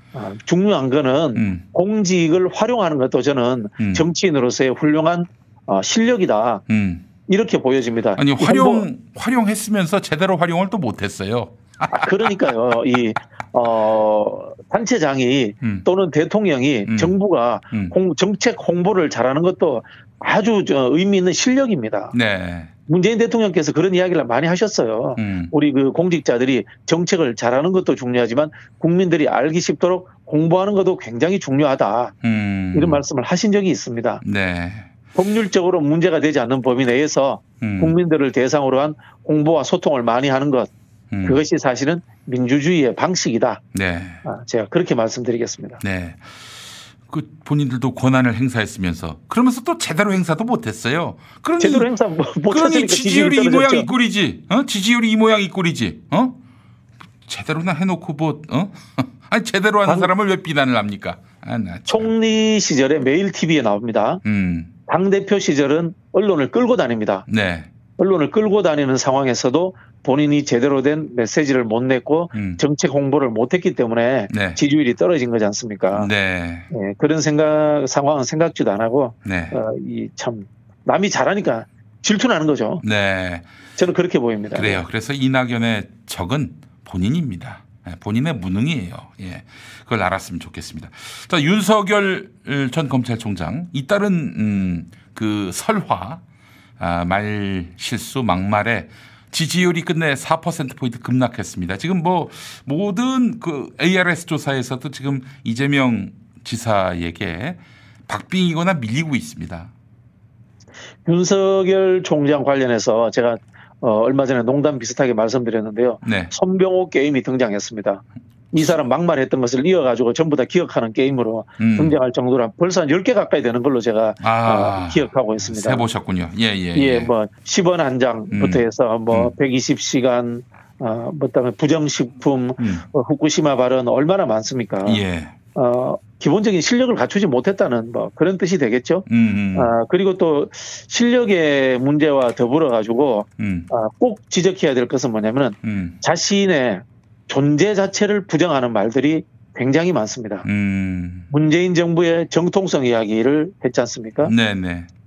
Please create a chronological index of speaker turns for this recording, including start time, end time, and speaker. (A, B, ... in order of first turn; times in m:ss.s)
0:00.2-0:06.6 A
0:01.4-0:01.6 B
0:03.8-0:04.1 B
0:06.7-0:07.1 B
0:07.3-0:08.9 A
0:08.2-0:12.6 B
0:11.9-0:22.1 A
0:15.6-0:15.9 B
0:16.8-0:17.2 B
0:22.1-0:22.7 B
0:22.9-0:32.1 A
0:25.2-0:25.5 B
0:32.2-0:33.0 B
0:32.7-0:34.2 A
0:34.2-0:35.0 B
0:35.2-0:40.7 A
0:37.6-0:38.0 B
0:41.1-0:41.4 B
0:41.2-0:43.6 A
0:43.7-0:44.2 B
0:44.2-0:45.8 A
0:45.8-0:46.3 B
0:47.1-0:51.9 B
0:51.6-0:53.9 A
0:52.5-0:56.4 B
0:57.3-1:02.1 B
0:59.9-1:00.1 A
1:01.9-1:04.2 A
1:04.2-1:04.7 B
1:04.9-1:07.2 A
1:07.3-1:07.7 B
1:08.0-1:16.1 A
1:12.3-1:12.6 B
1:14.3-1:14.6 B
1:15.9-1:16.7 B
1:16.7-1:22.8 A
1:19.2-1:19.6 B
1:22.8-1:23.5 B
1:23.8-1:24.8 A
1:24.5-1:36.2 B
1:36.8-1:49.7 B
1:51.1-2:05.9 A
1:56.0-1:56.3 B
2:01.6-2:02.0 B
2:04.2-2:07.1 B
2:06.8-2:15.0 A
2:08.3-2:09.3 B
2:12.6-2:12.8 B
2:14.8-2:15.4 B
2:15.6-2:30.4 A
2:19.1-2:19.7 B
2:23.4-2:23.7 B
2:25.6-2:26.0 B
2:30.4-2:31.3 B
2:31.3-2:34.3 A
2:34.2-2:34.9 B